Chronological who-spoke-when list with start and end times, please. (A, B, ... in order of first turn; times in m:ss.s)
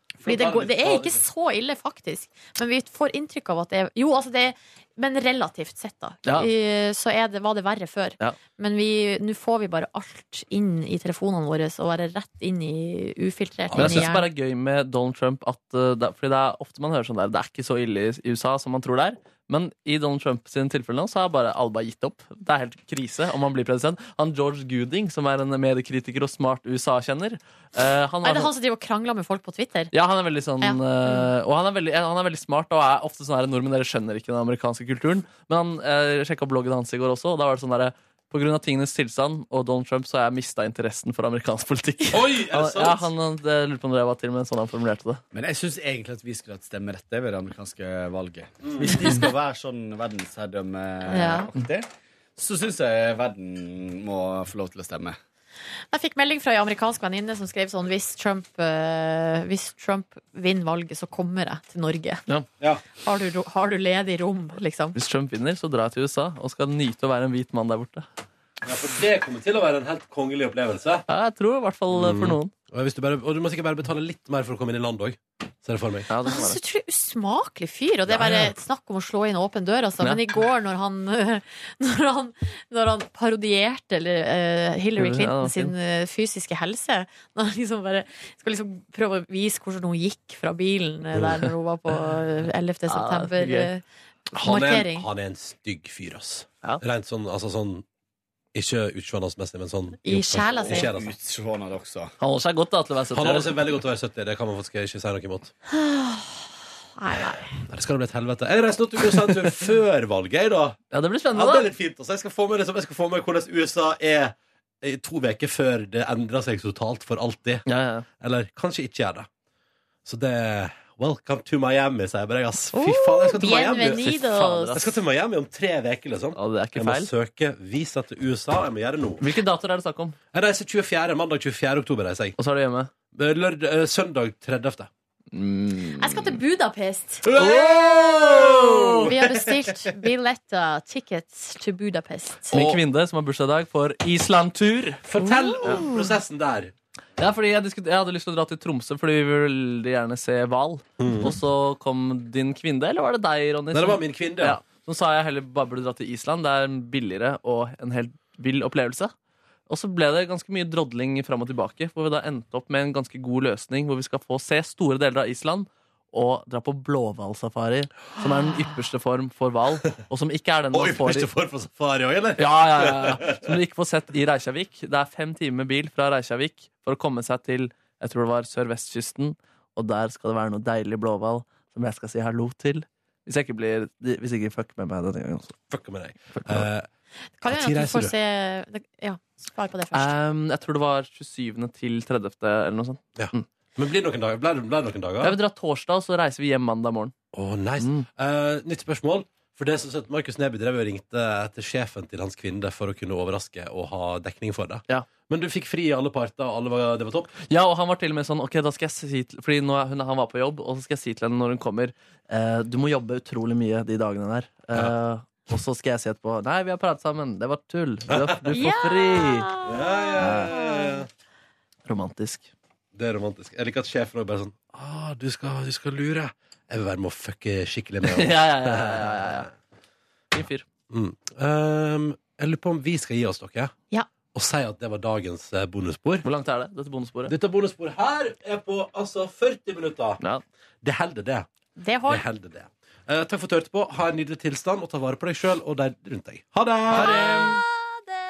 0:00.2-0:01.2 A
0:00.2-0:14.3 B
0:13.7-0:14.1 A
0:13.8-0:28.5 C
0:28.2-0:29.9 B
0:29.9-0:45.2 C
0:30.6-0:31.3 B
0:42.1-0:43.1 A
0:45.3-0:55.2 D
0:48.6-0:49.0 A
0:51.1-0:51.5 B
0:55.9-1:02.2 B
1:03.0-1:05.0 B
1:04.9-1:08.1 C
1:08.6-1:11.0 A
1:11.1-1:12.5 C
1:11.9-1:16.1 A
1:16.1-1:16.6 C
1:16.2-1:33.8 B
1:18.1-1:18.5 A
1:25.0-1:25.7 C
1:32.9-1:33.7 C
1:34.3-1:37.8 A
1:34.4-1:35.0 B
1:38.5-1:41.1 A
1:40.0-1:40.9 B
1:40.7-1:42.1 D
1:42.2-1:43.6 C
1:43.1-1:45.5 A
1:45.7-1:47.5 B
1:47.7-1:50.8 A
1:50.9-1:51.7 C
1:51.3-1:57.6 A
1:57.7-1:58.0 C
1:58.2-1:59.3 A
2:00.0-2:04.1 A
2:02.7-2:04.7 B
2:03.8-2:04.9 C
2:04.7-2:09.2 A
2:06.4-2:07.1 C
2:09.2-2:10.2 C
2:10.3-2:12.4 A
2:12.4-2:12.9 C
2:13.1-2:14.9 A
2:15.3-2:16.4 C
2:16.0-2:17.3 B
2:17.2-2:19.6 A
2:17.3-2:19.1 C
2:19.0-2:22.5 B
2:22.5-2:22.8 A
2:22.5-2:25.0 C
2:25.0-2:26.7 A
2:25.2-2:26.0 B
2:27.2-2:39.1 C
2:31.0-2:31.3 A
2:33.7-2:34.6 A
2:39.7-2:51.3 C
2:50.7-2:53.5 A
2:52.4-3:05.6 C
3:05.7-3:06.9 A
3:06.3-3:06.7 C
3:07.4-3:10.1 B
3:07.4-3:08.1 A
3:09.9-3:13.4 C
3:13.2-3:15.3 A
3:15.2-3:17.1 C
3:17.3-3:27.3 A
3:17.8-3:18.1 C
3:27.4-3:39.5 C
3:38.1-3:38.4 A
3:38.5-3:41.0 B
3:39.6-3:41.1 A
3:40.2-3:40.5 C
3:41.8-3:42.5 C
3:42.9-3:49.5 A
3:48.1-3:49.5 C
3:50.3-3:50.6 C
3:50.9-3:53.7 A
3:54.3-3:56.2 A
3:56.2-3:57.3 C
3:57.3-4:00.2 A
4:00.8-4:01.5 A
4:01.8-4:02.2 B
4:02.1-4:07.4 A
4:06.9-4:08.0 B
4:07.0-4:07.4 C